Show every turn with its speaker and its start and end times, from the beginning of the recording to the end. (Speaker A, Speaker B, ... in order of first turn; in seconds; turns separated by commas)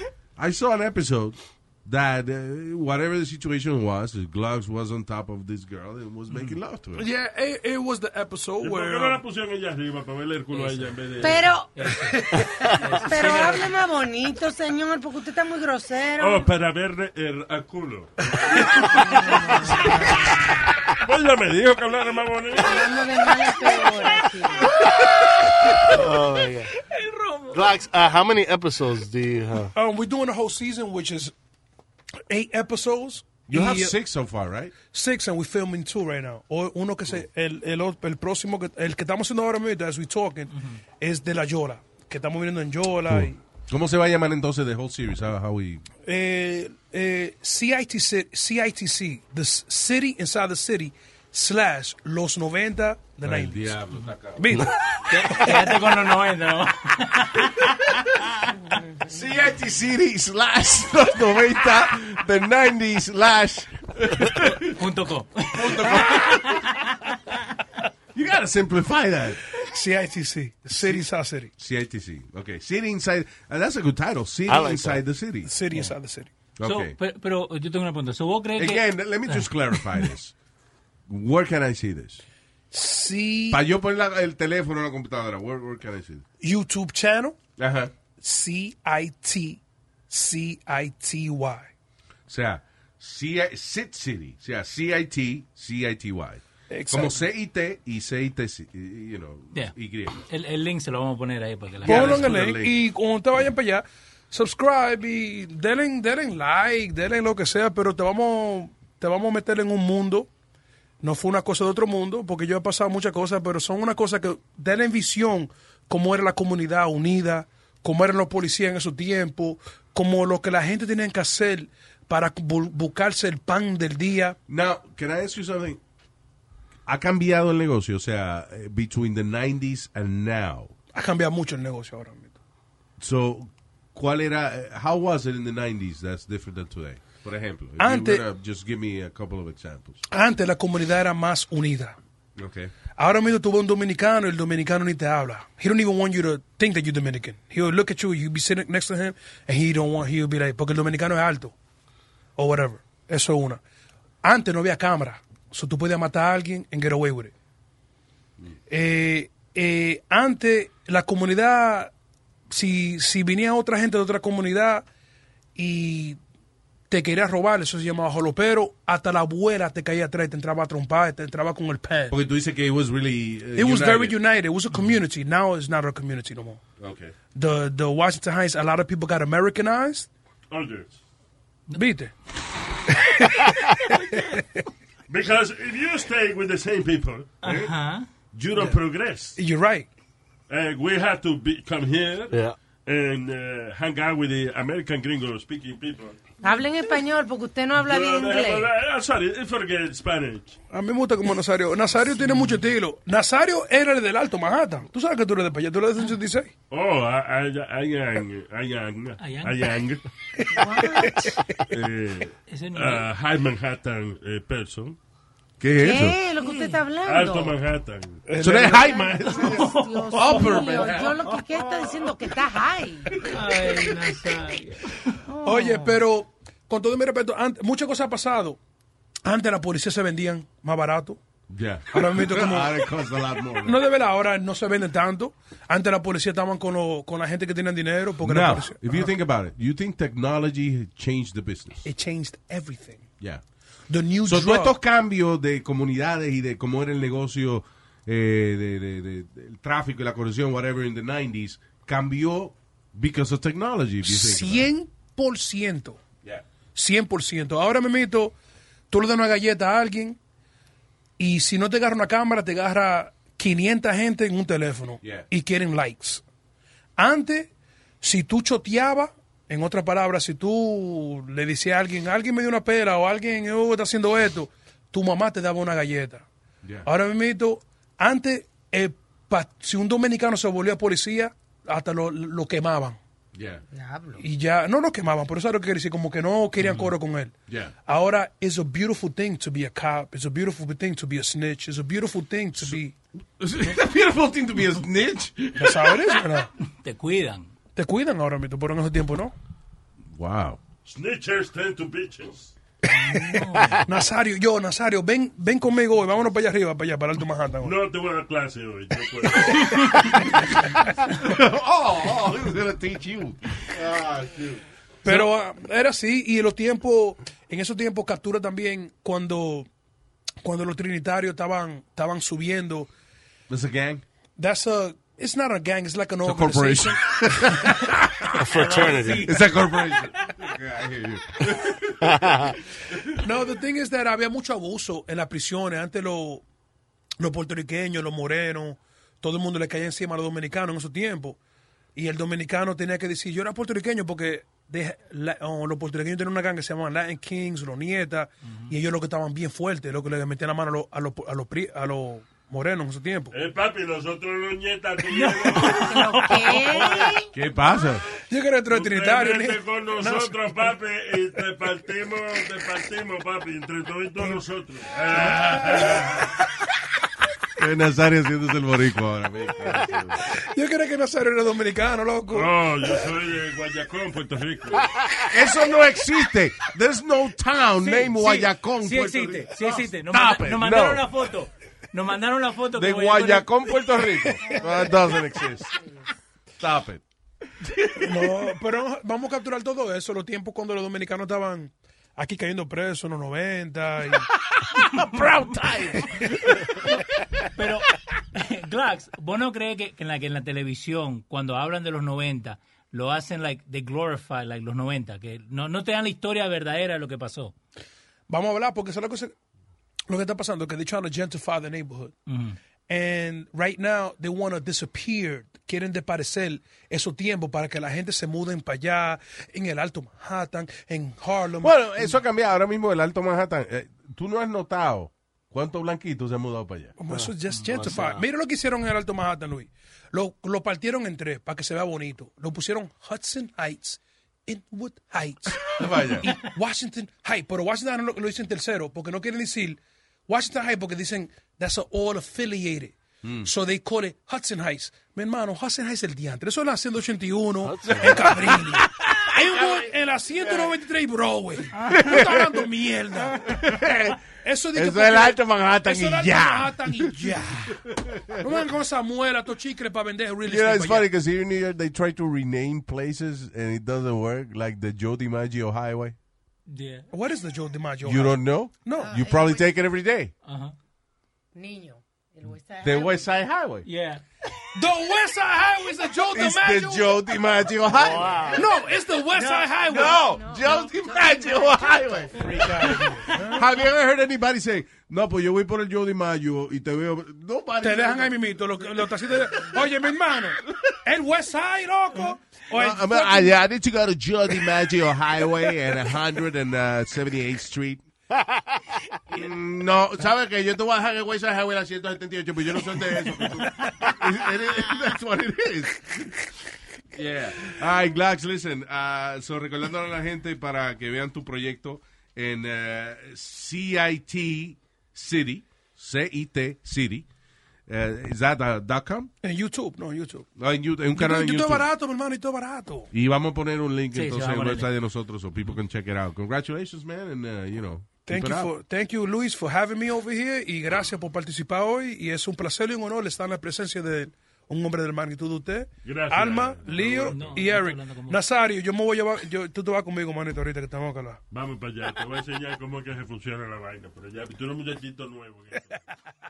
Speaker A: 0.4-7.0, Speaker B: 7.0-9.2, Speaker C: 8.6-11.6, Speaker D: 10.5-13.7, Speaker E: 11.2-11.7, Speaker B: 12.1-12.5, Speaker F: 12.4-12.7, Speaker E: 13.0-16.5, Speaker C: 16.2-18.9, Speaker B: 18.4-20.2, Speaker E: 18.9-19.7, Speaker C: 20.3-22.9, Speaker E: 22.6-24.7, Speaker D: 25.0-25.8, Speaker F: 25.8-26.7, Speaker D: 26.8-27.7, Speaker F: 27.5-29.7, Speaker B: 29.7-31.3, Speaker B: 32.3-33.9, Speaker A: 33.5-34.7, Speaker B: 34.9-43.4, Speaker A: 43.1-45.8, Speaker B: 46.0-53.8, Speaker A: 53.2-54.7, Speaker B: 54.4-55.8, Speaker D: 55.1-58.0, Speaker A: 59.0-64.7, Speaker D: 64.8-66.8, Speaker A: 65.5-66.6, Speaker A: 68.1-69.4, Speaker B: 69.5-71.5, Speaker A: 70.7-71.0, Speaker A: 71.6-75.5, Speaker F: 74.5-75.0, Speaker B: 75.5-76.3, Speaker A: 76.6-77.0, Speaker D: 76.6-79.8, Speaker A: 78.5-80.3, Speaker A: 81.1-82.2, Speaker B: 82.7-83.6, Speaker A: 83.5-86.2, Speaker B: 86.4-87.4, Speaker A: 87.6-87.9, Speaker B: 88.2-91.7, Speaker A: 92.3-100.2, Speaker B: 96.7-97.2, Speaker D: 100.3-102.3, Speaker A: 101.8-102.8, Speaker B: 101.8-110.3, Speaker B: 111.0-124.4, Speaker A: 124.5-125.8, Speaker A: 126.8-130.7, Speaker B: 130.9-132.3, Speaker A: 133.0-140.0, Speaker B: 137.8-138.2, Speaker B: 140.1-142.0, Speaker A: 142.4-142.7, Speaker B: 143.0-151.5, Speaker B: 152.4-153.6, Speaker B: 154.2-157.3, Speaker B: 158.7-161.9, Speaker B: 162.5-164.8, Speaker B: 165.6-166.2, Speaker B: 166.9-172.2, Speaker A: 172.1-174.2, Speaker B: 173.6-176.6, Speaker A: 176.8-177.1, Speaker B: 177.3-180.1, Speaker C: 180.5-181.0, Speaker B: 181.7-182.1, Speaker B: 183.0-183.5, Speaker B: 184.1-184.6, Speaker C: 185.1-187.7, Speaker D: 187.4-188.1, Speaker C: 188.3-189.4, Speaker B: 189.3-189.9, Speaker C: 190.5-196.2, Speaker E: 196.4-198.7, Speaker C: 197.8-200.6, Speaker B: 200.7-206.5, Speaker D: 202.2-202.6, Speaker C: 206.7-210.0, Speaker D: 209.2-209.7, Speaker E: 210.5-211.3, Speaker B: 210.8-211.3, Speaker C: 211.7-215.0, Speaker D: 212.5-213.1, Speaker A: 215.6-216.2, Speaker E: 215.8-217.6, Speaker D: 216.4-216.8, Speaker C: 217.0-218.2, Speaker B: 218.3-219.3, Speaker A: 218.4-221.3, Speaker E: 218.9-223.2, Speaker D: 219.3-221.1, Speaker D: 223.2-226.0, Speaker B: 225.4-228.6, Speaker B: 229.2-231.2, Speaker A: 231.5-233.8, Speaker B: 231.9-232.9, Speaker B: 233.6-239.1, Speaker A: 238.2-241.8, Speaker B: 241.8-243.1, Speaker B: 243.9-244.7, Speaker A: 244.2-254.7, Speaker B: 254.0-256.0, Speaker B: 256.7-258.3, Speaker B: 258.9-260.2, Speaker B: 261.2-266.2, Speaker B: 267.0-267.5, Speaker B: 268.0-276.2, Speaker B: 276.8-283.0, Speaker A: 283.3-283.6, Speaker E: 283.7-284.2, Speaker B: 284.2-287.3, Speaker A: 287.5-287.7, Speaker B: 287.9-292.9, Speaker A: 293.4-296.1, Speaker B: 295.6-296.5, Speaker D: 296.6-297.5, Speaker B: 297.8-299.3, Speaker A: 300.1-300.6, Speaker C: 300.8-302.5, Speaker B: 303.0-307.8, Speaker D: 303.0-303.8, Speaker C: 307.6-310.2, Speaker A: 311.1-315.2, Speaker B: 315.0-319.7, Speaker B: 320.4-322.9, Speaker A: 323.5-324.0, Speaker B: 324.4-327.8, Speaker A: 326.2-328.3, Speaker F: 328.4-329.3, Speaker D: 328.5-330.0, Speaker A: 329.2-333.3, Speaker F: 332.0-332.5, Speaker B: 333.2-336.4, Speaker B: 337.2-341.4, Speaker B: 341.9-353.3, Speaker C: 353.3-355.9, Speaker D: 355.1-357.1, Speaker E: 355.5-357.2, Speaker C: 356.7-357.1, Speaker A: 357.3-358.1, Speaker B: 358.2-360.7, Speaker C: 358.7-366.2, Speaker B: 365.4-366.0, Speaker A: 367.6-370.2, Speaker B: 370.2-372.6, Speaker C: 372.3-374.9, Speaker A: 375.3-381.1, Speaker D: 377.8-383.5, Speaker A: 382.7-385.7, Speaker E: 384.4-384.7, Speaker E: 385.7-386.0, Speaker A: 386.6-387.0, Speaker A: 387.6-388.4, Speaker B: 388.0-394.3, Speaker A: 394.6-396.7, Speaker D: 397.5-407.5, Speaker B: 408.3-409.3, Speaker B: 410.1-412.1, Speaker D: 412.3-412.6, Speaker B: 412.9-422.2, Speaker A: 421.6-426.9, Speaker B: 427.0-453.6, Speaker F: 427.1-428.2, Speaker A: 435.7-436.3, Speaker A: 443.2-443.5, Speaker F: 447.6-448.4, Speaker A: 448.0-449.9, Speaker A: 450.4-450.7, Speaker A: 451.8-452.6, Speaker A: 453.4-454.2, Speaker B: 454.4-457.8, Speaker A: 454.7-458.6, Speaker B: 458.4-461.1, Speaker A: 460.4-466.1, Speaker D: 466.7-467.1, Speaker B: 467.1-469.1, Speaker A: 468.0-470.3, Speaker E: 469.0-469.7, Speaker D: 470.4-470.7, Speaker E: 471.5-473.3, Speaker A: 472.8-473.9, Speaker D: 473.8-474.2, Speaker B: 474.7-477.4, Speaker A: 476.3-478.7, Speaker F: 477.9-478.7, Speaker B: 478.5-480.2, Speaker D: 479.3-480.2, Speaker A: 479.9-489.8, Speaker E: 480.0-482.7, Speaker B: 482.4-483.6, Speaker B: 487.8-493.6, Speaker A: 492.7-498.0, Speaker A: 499.3-506.4, Speaker A: 507.1-517.3, Speaker A: 517.9-519.3, Speaker B: 519.4-520.5, Speaker A: 520.6-521.8, Speaker B: 521.1-523.1, Speaker A: 523.1-528.7, Speaker D: 524.1-524.9, Speaker B: 528.2-541.4, Speaker C: 536.0-537.7, Speaker D: 537.3-538.4, Speaker C: 541.5-546.0